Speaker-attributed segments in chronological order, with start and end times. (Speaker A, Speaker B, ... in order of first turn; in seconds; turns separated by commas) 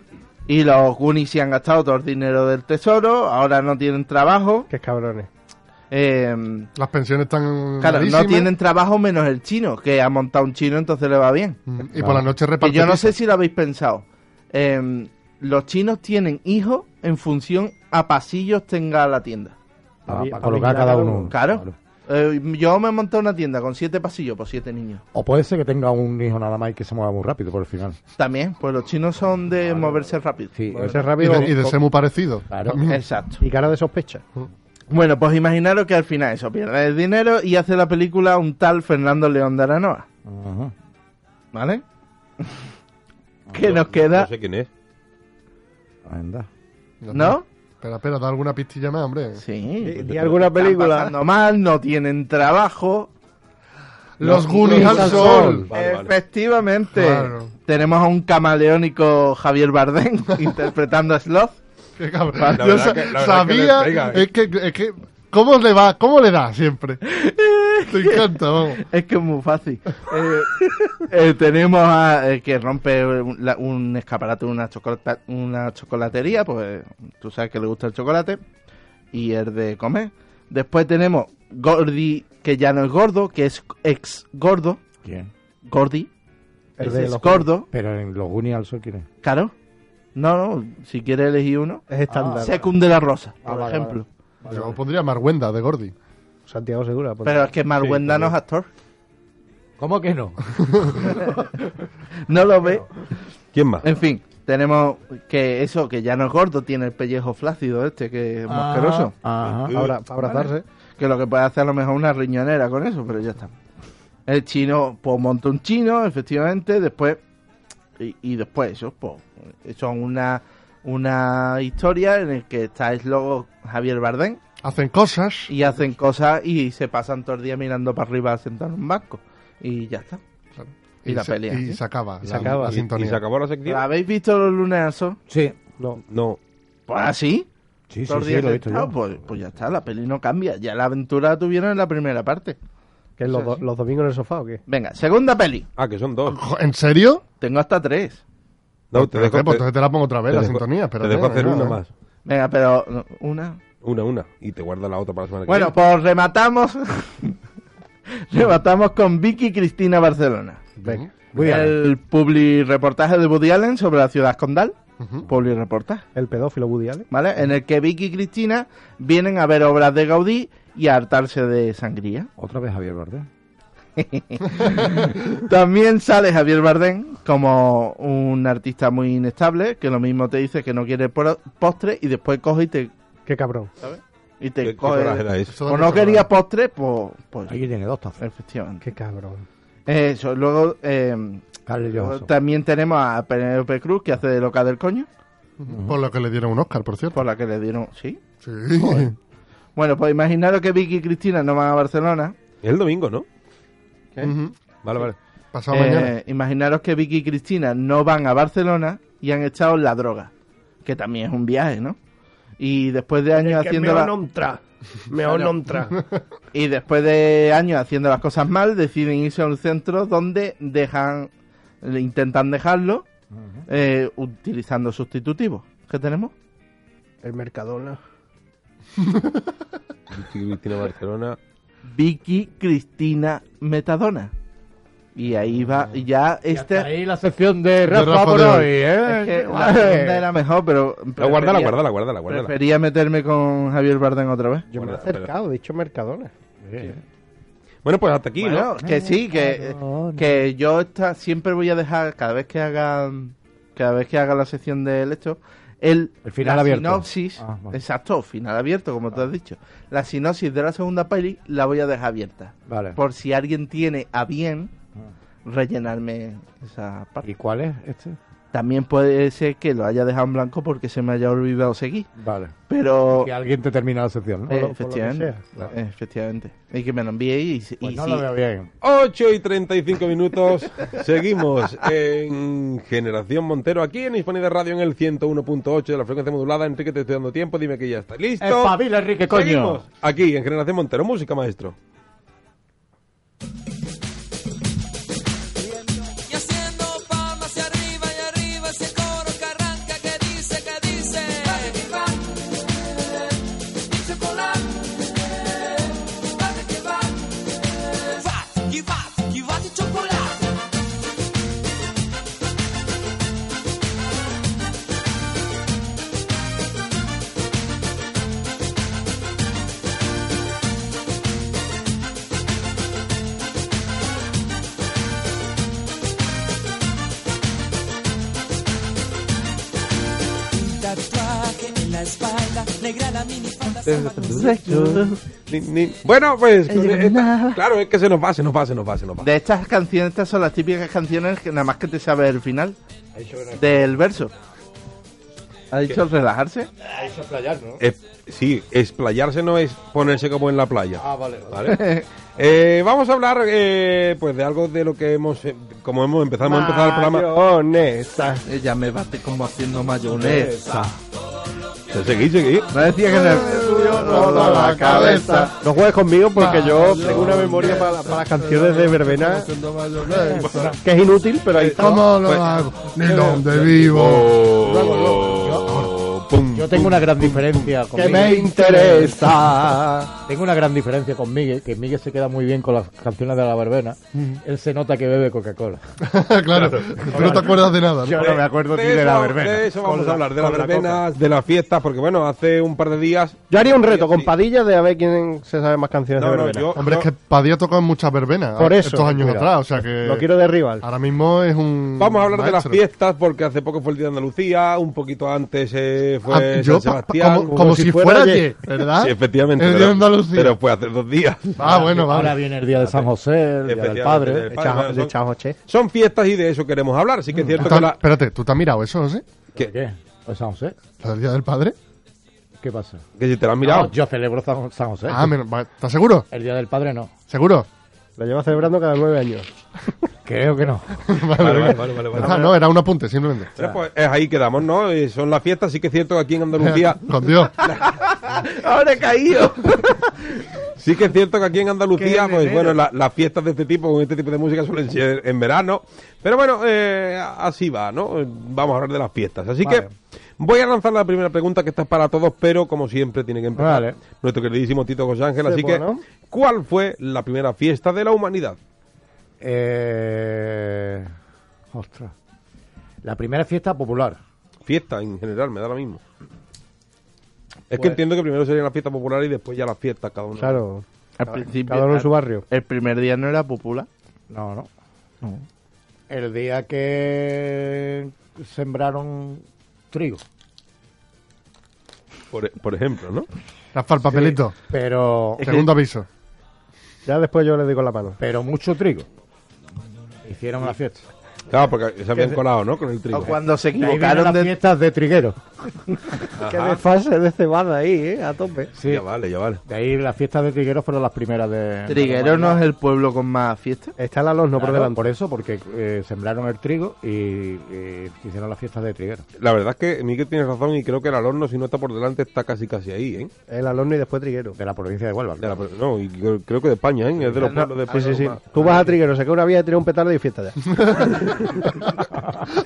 Speaker A: 0.5-4.7, Speaker B: 4.7-5.3, Speaker A: 5.9-6.7, Speaker C: 6.7-8.5, Speaker A: 7.8-11.6, Speaker C: 11.7-13.1, Speaker D: 12.0-12.3, Speaker A: 12.6-19.5, Speaker B: 20.1-21.3, Speaker D: 20.1-21.8, Speaker A: 21.3-25.0, Speaker D: 25.1-28.0, Speaker A: 28.2-31.1, Speaker D: 30.5-31.4, Speaker B: 30.7-31.8, Speaker C: 31.2-33.0, Speaker D: 32.5-32.8, Speaker A: 32.8-33.4, Speaker B: 33.4-34.2, Speaker A: 34.9-40.0, Speaker D: 40.2-40.7, Speaker A: 41.5-41.8, Speaker A: 42.4-42.7, Speaker A: 43.5-44.3, Speaker E: 43.6-44.7, Speaker D: 46.0-46.5, Speaker C: 47.0-49.4, Speaker A: 47.1-47.4, Speaker A: 49.4-53.1, Speaker B: 49.8-51.1, Speaker E: 50.0-50.4, Speaker C: 54.2-55.7, Speaker B: 54.3-55.7, Speaker D: 54.6-55.6, Speaker E: 54.6-56.1, Speaker A: 55.7-61.6, Speaker C: 56.9-57.5, Speaker C: 62.0-67.0, Speaker A: 62.4-62.9, Speaker E: 62.5-64.2, Speaker A: 67.0-78.4, Speaker C: 67.9-68.8, Speaker A: 79.1-84.8, Speaker D: 85.0-85.3, Speaker A: 85.6-86.1, Speaker B: 86.8-87.5, Speaker A: 86.8-87.7, Speaker D: 87.7-89.1, Speaker A: 89.2-89.5, Speaker A: 90.1-91.8, Speaker B: 91.9-92.7, Speaker D: 92.1-92.5, Speaker A: 92.4-94.1, Speaker D: 93.4-94.8, Speaker C: 94.5-95.9, Speaker B: 96.5-97.5, Speaker A: 97.2-98.7, Speaker D: 97.8-98.3, Speaker D: 99.8-100.4, Speaker C: 100.5-100.9, Speaker D: 101.0-101.4, Speaker A: 101.0-101.7, Speaker A: 102.2-102.9, Speaker E: 103.5-103.9, Speaker A: 103.8-109.1, Speaker D: 108.5-109.8, Speaker E: 109.4-110.3, Speaker B: 109.7-110.6, Speaker A: 111.0-113.5, Speaker A: 114.3-117.2, Speaker A: 118.0-124.4, Speaker C: 124.6-125.5, Speaker A: 125.5-130.2, Speaker C: 130.6-133.2, Speaker A: 131.1-131.8, Speaker B: 132.2-132.8, Speaker E: 132.4-133.8, Speaker A: 133.7-135.2, Speaker D: 135.3-135.6, Speaker E: 136.1-136.4, Speaker A: 136.9-137.5, Speaker D: 137.9-138.9, Speaker A: 138.1-142.6, Speaker B: 143.2-144.6, Speaker A: 143.3-143.7, Speaker A: 144.7-145.7, Speaker E: 145.8-146.4, Speaker C: 146.3-147.2, Speaker A: 147.4-148.2, Speaker E: 148.9-149.6, Speaker C: 148.9-151.8, Speaker E: 150.3-151.9, Speaker A: 152.2-153.6, Speaker E: 153.8-155.7, Speaker A: 155.5-157.4, Speaker A: 158.3-160.7, Speaker B: 160.8-161.1, Speaker C: 160.8-161.1, Speaker D: 161.3-161.8, Speaker A: 161.4-166.0, Speaker C: 165.0-165.3, Speaker B: 166.1-167.1, Speaker A: 167.1-172.3, Speaker D: 172.4-173.3, Speaker A: 174.0-182.9, Speaker B: 183.2-183.7, Speaker A: 183.8-187.6, Speaker E: 184.6-185.6, Speaker C: 185.5-186.3, Speaker D: 187.5-188.2, Speaker A: 188.2-188.8, Speaker B: 188.8-189.4, Speaker A: 189.9-195.1, Speaker D: 191.7-192.3, Speaker C: 195.6-197.2, Speaker D: 195.7-196.0, Speaker A: 197.1-198.2, Speaker C: 198.4-199.2, Speaker A: 199.8-202.3, Speaker E: 202.6-203.2, Speaker C: 204.2-204.6, Speaker E: 204.8-205.2, Speaker C: 205.5-206.1, Speaker A: 205.7-210.3, Speaker A: 210.8-211.9, Speaker A: 212.6-214.1, Speaker B: 213.3-216.0, Speaker A: 215.2-215.5, Speaker A: 216.5-221.3, Speaker A: 221.8-223.1, Speaker D: 223.3-223.6, Speaker A: 223.7-226.3, Speaker B: 227.2-228.0, Speaker C: 229.0-229.5, Speaker E: 230.1-231.4, Speaker A: 231.9-234.3, Speaker A: 235.2-236.9, Speaker D: 236.5-240.2, Speaker C: 237.9-238.7, Speaker A: 239.0-244.7, Speaker E: 241.2-242.5, Speaker B: 244.7-246.3, Speaker E: 244.7-245.3, Speaker D: 246.6-247.0, Speaker E: 247.8-248.7, Speaker A: 248.4-264.7, Speaker D: 248.8-250.4, Speaker D: 256.2-257.8, Speaker D: 262.7-263.0, Speaker A: 265.4-267.3, Speaker D: 267.2-268.2, Speaker A: 268.5-272.1, Speaker D: 272.2-272.5, Speaker A: 272.7-273.3, Speaker D: 273.1-274.5, Speaker A: 274.5-278.2, Speaker B: 274.5-275.7, Speaker D: 277.8-278.7, Speaker E: 278.8-288.8, Speaker D: 288.4-289.8, Speaker E: 289.3-291.8, Speaker F: 295.7-310.5, Speaker F: 330.5-334.7, Speaker E: 333.9-339.3, Speaker A: 334.0-335.2, Speaker A: 336.7-337.6, Speaker A: 339.2-342.8, Speaker D: 343.1-344.0, Speaker A: 343.6-344.3, Speaker A: 345.7-346.7, Speaker D: 346.8-347.8, Speaker E: 347.8-351.8, Speaker D: 351.0-351.7, Speaker A: 351.7-352.1, Speaker E: 352.4-357.3, Speaker B: 356.4-358.4, Speaker A: 358.5-360.9, Speaker D: 360.1-360.9, Speaker E: 361.9-362.7, Speaker A: 362.7-365.5, Speaker C: 363.1-365.5, Speaker B: 363.1-369.5, Speaker C: 366.4-370.8, Speaker E: 370.4-370.7, Speaker B: 370.8-372.1, Speaker E: 371.5-372.5, Speaker C: 371.7-374.5, Speaker D: 373.0-374.1, Speaker E: 373.5-377.7, Speaker B: 374.7-375.4, Speaker D: 375.1-375.7, Speaker C: 375.5-375.9, Speaker D: 376.5-379.3, Speaker B: 377.9-380.1, Speaker D: 380.2-385.8, Speaker C: 384.1-384.4, Speaker C: 386.0-388.4, Speaker D: 387.1-389.7, Speaker E: 388.1-394.3, Speaker B: 389.8-390.9, Speaker D: 390.5-391.0, Speaker B: 393.5-396.7, Speaker E: 396.1-397.1, Speaker C: 396.7-400.3, Speaker B: 398.6-400.9, Speaker C: 400.8-402.8, Speaker E: 402.0-407.5, Speaker C: 406.3-410.6, Speaker B: 407.5-408.4, Speaker E: 409.0-411.7, Speaker C: 411.6-412.4, Speaker D: 411.6-414.5, Speaker E: 413.6-415.1, Speaker B: 414.5-415.6, Speaker E: 415.7-418.0, Speaker C: 417.6-419.2, Speaker D: 419.5-420.8, Speaker C: 421.0-421.8, Speaker D: 422.6-423.0, Speaker E: 423.2-423.9, Speaker D: 423.6-425.3, Speaker C: 425.1-426.3, Speaker D: 426.3-427.1, Speaker C: 427.3-427.7, Speaker B: 428.2-429.5, Speaker D: 430.2-431.0, Speaker C: 431.1-433.5, Speaker E: 431.4-432.5, Speaker E: 433.6-437.8, Speaker C: 436.6-437.5, Speaker A: 437.6-440.4, Speaker E: 440.8-449.9, Speaker B: 442.0-442.8, Speaker E: 450.4-458.6, Speaker D: 453.6-454.0, Speaker B: 455.4-456.0, Speaker D: 459.4-461.1, Speaker D: 461.7-462.1, Speaker D: 463.0-464.2, Speaker E: 464.6-466.0, Speaker E: 467.7-470.6, Speaker B: 470.4-472.4, Speaker A: 471.2-473.9, Speaker D: 474.3-474.7, Speaker D: 476.1-480.2, Speaker E: 482.3-483.3, Speaker C: 483.7-484.5, Speaker D: 484.1-485.5, Speaker A: 485.4-485.7, Speaker C: 485.4-486.1, Speaker B: 487.0-488.2, Speaker D: 488.2-489.1, Speaker D: 490.2-491.0, Speaker E: 491.5-493.4, Speaker A: 493.1-494.5, Speaker D: 493.8-495.4, Speaker E: 496.4-496.8, Speaker B: 496.5-498.7, Speaker D: 498.7-499.0, Speaker E: 498.9-499.6, Speaker D: 499.6-502.6, Speaker A: 501.9-503.9, Speaker B: 504.0-505.0, Speaker D: 504.5-509.2, Speaker E: 509.4-513.3, Speaker B: 513.5-514.5, Speaker D: 514.5-515.6, Speaker E: 515.4-518.7, Speaker D: 517.2-517.5, Speaker A: 517.4-518.3, Speaker B: 517.9-521.8, Speaker C: 520.7-521.1